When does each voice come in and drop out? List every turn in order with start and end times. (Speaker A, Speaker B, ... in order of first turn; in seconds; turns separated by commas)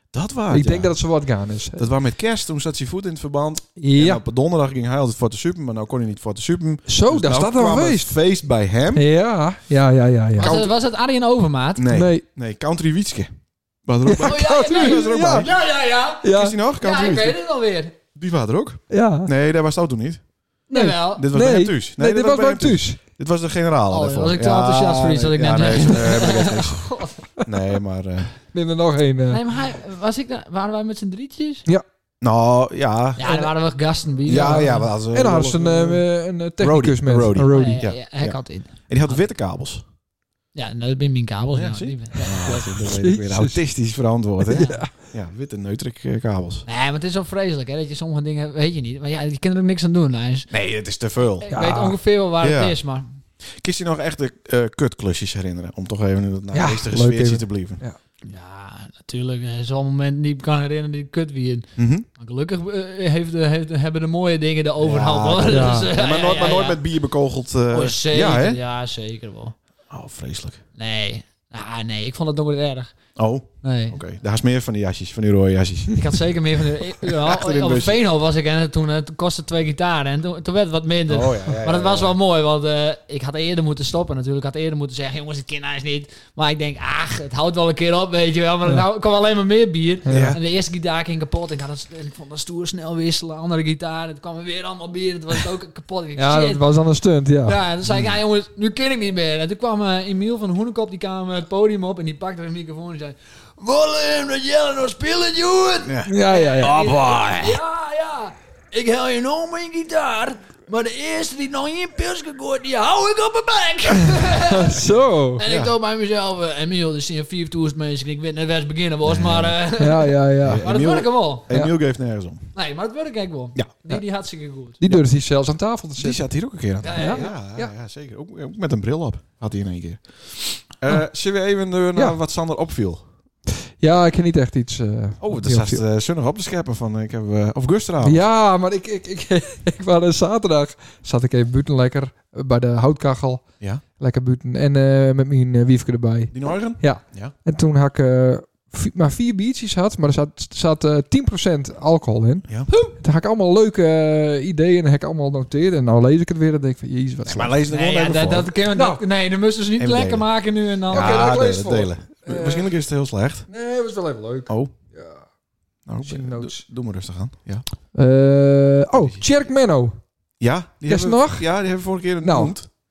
Speaker A: 0.1-1.0, Speaker B: 0.5-1.9, Speaker A: 1.8-9.1, Speaker B: 3.8-4.2, Speaker B: 6.9-8.2, Speaker B: 8.9-10.6, Speaker C: 10.4-11.8, Speaker A: 10.4-10.7, Speaker A: 11.8-15.5, Speaker B: 11.9-12.2, Speaker B: 14.1-15.5, Speaker C: 14.2-17.9, Speaker B: 16.2-16.6, Speaker A: 16.3-17.4, Speaker A: 18.1-20.2, Speaker B: 18.9-19.3, Speaker C: 20.7-21.3, Speaker B: 20.7-23.0, Speaker A: 21.1-28.3, Speaker C: 23.9-27.2, Speaker B: 28.5-29.4, Speaker C: 29.3-31.7, Speaker A: 32.2-33.5, Speaker C: 33.2-34.9, Speaker A: 34.3-36.1, Speaker B: 35.1-37.8, Speaker A: 36.6-39.8, Speaker C: 37.5-39.2, Speaker C: 40.5-42.8, Speaker A: 41.5-46.6, Speaker B: 42.8-43.6, Speaker B: 44.4-44.9, Speaker C: 46.7-50.5, Speaker A: 50.5-51.5, Speaker C: 51.4-53.2, Speaker B: 51.5-52.0, Speaker A: 52.4-52.8, Speaker A: 53.5-57.8, Speaker B: 56.5-58.0, Speaker C: 58.2-66.8, Speaker A: 61.8-62.1, Speaker A: 64.8-68.6, Speaker B: 65.5-65.9, Speaker C: 67.7-69.6, Speaker A: 69.9-70.6, Speaker C: 70.8-73.0, Speaker A: 73.2-76.1, Speaker C: 73.6-74.0, Speaker C: 76.0-96.7, Speaker A: 77.0-78.0, Speaker A: 81.1-82.2, Speaker B: 90.1-90.4, Speaker A: 90.1-90.4, Speaker B: 96.2-97.6, Speaker C: 97.5-121.5, Speaker A: 97.9-98.2, Speaker A: 105.9-107.6, Speaker B: 106.1-107.0, Speaker B: 114.1-115.4, Speaker A: 115.5-115.7, Speaker A: 119.1-119.5, Speaker B: 119.8-120.7, Speaker A: 120.4-122.5, Speaker C: 122.5-124.8, Speaker B: 124.8-126.2, Speaker A: 126.0-133.0, Speaker C: 126.8-127.4, Speaker B: 127.0-127.7, Speaker B: 133.6-135.8, Speaker A: 135.2-138.2, Speaker B: 138.0-157.6, Speaker A: 146.3-147.3, Speaker A: 157.2-158.5, Speaker C: 157.7-161.3, Speaker B: 158.7-159.0, Speaker A: 159.8-160.3, Speaker B: 160.9-162.7, Speaker A: 160.9-163.5, Speaker B: 163.5-165.2, Speaker A: 164.5-164.7, Speaker A: 165.9-167.7, Speaker B: 166.0-166.6, Speaker B: 167.9-170.0, Speaker A: 168.9-169.2, Speaker A: 170.4-172.7, Speaker B: 170.9-171.5, Speaker B: 172.2-172.6